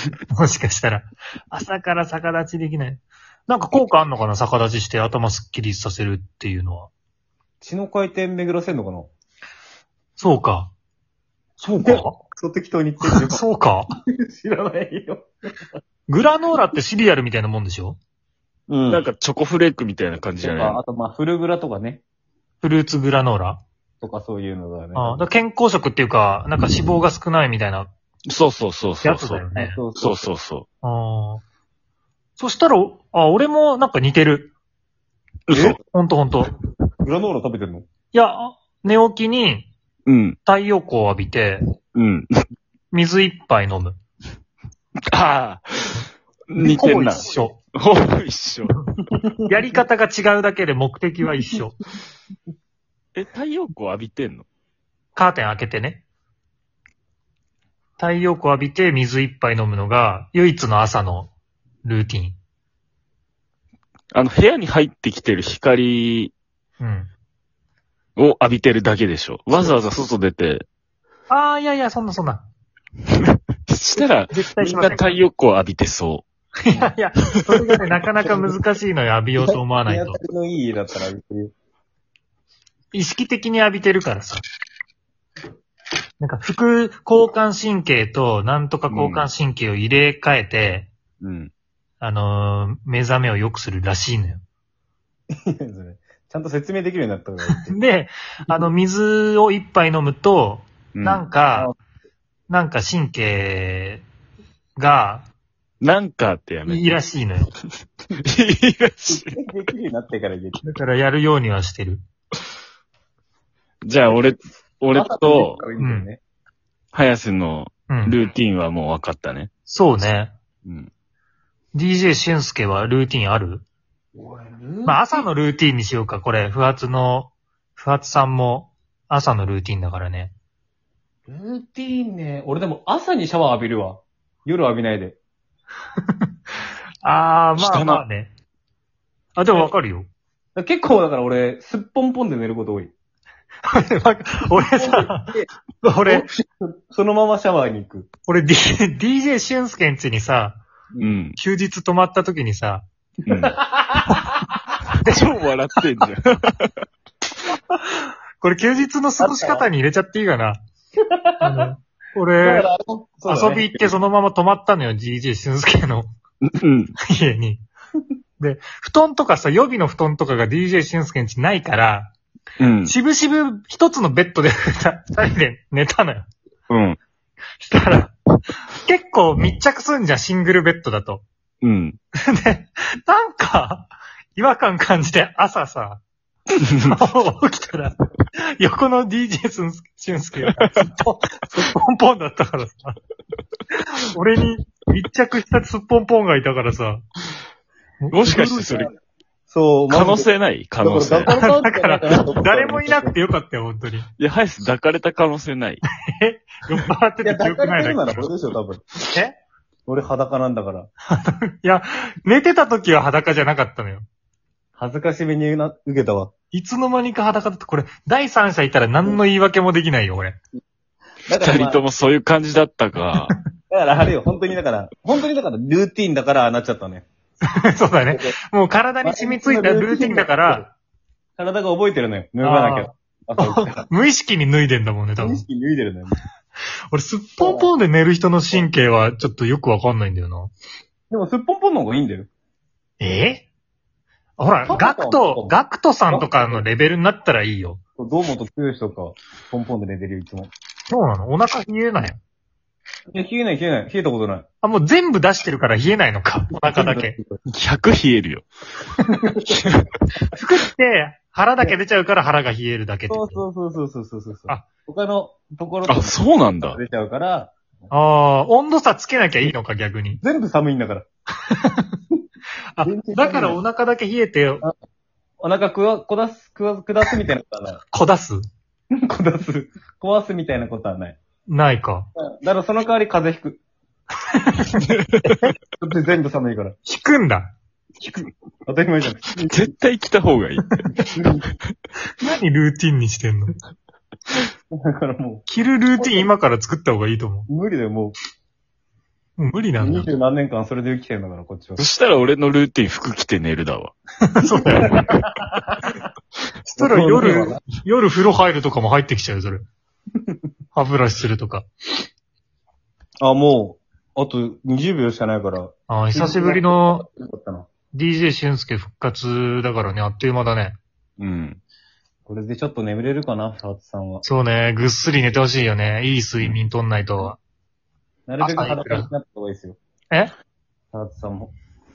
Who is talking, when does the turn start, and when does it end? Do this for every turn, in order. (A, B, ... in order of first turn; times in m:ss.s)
0:00.3-0:06.9 A
0:07.6-0:09.1 B
0:10.2-0:10.7 A
0:11.6-0:12.2 A
0:11.8-0:13.4 B
0:13.1-0:13.9 A
0:14.2-0:15.3 B
0:16.1-0:18.0 A
0:18.7-0:19.1 B
0:18.9-0:20.8 C
0:20.4-0:22.0 B
0:22.6-0:23.6 A
0:24.0-0:25.2 B
0:25.0-0:27.9 A
0:28.3-0:29.4 C
0:29.0-0:29.8 A
0:29.5-0:30.3 B
0:30.0-0:30.7 C
0:30.8-0:31.4 A
0:32.4-0:34.5 A
0:35.5-0:35.8 C
0:35.5-0:35.8 B
0:35.9-0:36.5 A
0:37.0-0:37.9 B
0:38.1-0:39.7 A
0:40.1-0:40.4 C
0:40.4-0:41.6 A
0:42.0-0:42.3 C
0:42.9-0:44.0 A
0:45.1-0:48.7 C
0:46.6-0:47.6 A
0:49.1-0:49.8 B
0:49.5-0:51.8 A
0:53.2-0:54.5 C
0:55.2-0:56.0 A
0:58.0-1:01.3 A
1:01.8-1:02.4 A
1:04.1-1:06.3 C
1:06.8-1:07.1 A
1:08.2-1:10.7 C
1:11.3-1:12.5 A
1:13.7-1:16.3 C
1:14.3-1:15.2 A
1:16.7-1:20.2 A
1:18.2-1:18.5 B
1:19.4-1:21.5 B
1:22.9-1:24.4 A
1:26.2-1:30.9 A
1:28.9-1:29.3 C
1:31.2-1:31.5 C
1:32.0-1:34.4 A
1:35.5-1:37.8 B
1:37.6-1:41.7 A
1:40.9-1:41.3 C
1:42.5-1:44.0 A
1:44.8-1:45.3 A
1:45.8-1:47.0 C
1:46.7-1:47.5 A
1:48.2-1:49.3 C
1:49.1-1:50.6 B
1:50.6-1:52.0 A
1:53.8-1:55.6 C
1:54.9-1:56.2 B
1:55.8-1:56.1 A
1:56.9-1:59.5 C
1:57.9-1:58.2 A
1:59.7-2:00.3 A
2:00.6-2:00.9 C
2:01.7-2:03.6 A
2:04.2-2:05.2 B
2:04.8-2:10.3 A
2:11.3-2:15.2 B
2:17.0-2:18.3 A
2:17.6-2:18.0 C
2:19.4-2:20.1 A
2:20.6-2:22.9 B
2:23.7-2:25.3 A
2:24.5-2:25.5 B
2:25.8-2:26.3 A
2:26.1-2:28.1 B
2:28.3-2:30.6 A
2:31.0-2:31.4 C
2:31.4-2:32.9 A
2:33.3-2:34.1 B
2:33.3-2:33.6 C
2:35.0-2:36.7 C
2:37.9-2:40.6 A
2:39.2-2:39.6 B
2:41.1-2:41.7 B
2:41.4-2:42.7 A
2:42.4-2:44.0 B
2:43.3-2:46.1 A
2:46.6-2:46.9 C
2:47.0-2:47.6 A
2:48.4-2:52.1 A
2:52.6-2:53.0 C
2:52.9-2:56.3 A
2:56.7-2:57.0 C
2:57.6-2:58.2 A
2:58.7-3:01.2 A
3:01.6-3:02.0 C
3:02.2-3:06.0 A
3:06.6-3:06.9 C
3:06.8-3:13.0 A
3:10.6-3:10.8 C
3:14.1-3:17.0 A
3:18.0-3:18.9 A
3:18.1-3:18.9 C
3:19.5-3:20.3 B
3:19.9-3:21.3 C
3:20.8-3:23.1 B
3:21.3-3:24.1 A
3:24.2-3:25.8 C
3:26.1-3:28.3 A
3:27.2-3:28.8 B
3:29.1-3:29.4 A
3:29.9-3:30.9 B
3:31.1-3:34.0 A
3:34.8-3:36.3 B
3:36.5-3:40.4 A
3:41.3-3:41.8 B
3:41.4-3:43.4 C
3:43.7-3:47.1 B
3:47.5-3:50.7 A
3:48.1-3:48.4 B
3:49.0-3:50.7 B
3:51.4-3:53.9 B
3:52.4-3:55.4 A
3:55.2-3:56.2 B
3:56.9-4:00.5 A
3:57.4-3:57.7 B
4:01.1-4:02.3 B
4:03.0-4:03.5 A
4:04.4-4:07.8 A
4:04.7-4:06.6 B
4:08.0-4:10.5 B
4:10.9-4:12.2 A
4:13.1-4:14.4 B
4:14.6-4:17.2 A
4:16.5-4:17.4 B
4:17.5-4:18.4 C
4:19.1-4:19.6 B
4:19.6-4:19.9 C
4:20.3-4:23.4 A
4:23.1-4:27.6 B
4:25.9-4:26.8 C
4:27.9-4:30.2 A
4:30.2-4:31.1 B
4:31.5-4:31.9 A
4:32.7-4:34.6 A
4:32.8-4:33.6 B
4:35.4-4:37.8 B
4:37.9-4:38.5 A
4:39.1-4:41.2 B
4:41.5-4:42.1 A
4:42.2-4:43.6 B
4:44.3-4:44.8 A
4:44.8-4:45.4 C
4:45.8-4:46.8 B
4:46.8-4:47.5 A
4:48.0-4:49.7 B
4:49.5-4:50.8 C
4:51.1-4:51.5 B
4:52.2-4:53.6 A
4:54.7-4:55.5 B
4:55.5-4:57.5 A
4:57.5-4:58.2 B
4:59.4-5:00.1 A
4:59.8-5:01.8 B
5:01.8-5:03.9 C
5:04.2-5:05.0 A
5:04.6-5:05.8 B
5:06.6-5:09.7 A
5:06.8-5:07.6 B
5:10.7-5:11.7 A
5:13.2-5:17.7 B
5:15.9-5:17.0 A
5:17.9-5:20.8 A
5:21.2-5:21.6 C
5:22.3-5:24.2 B
5:24.2-5:27.4 A
5:28.3-5:29.8 B
5:28.4-5:29.1 A
5:30.9-5:31.5 B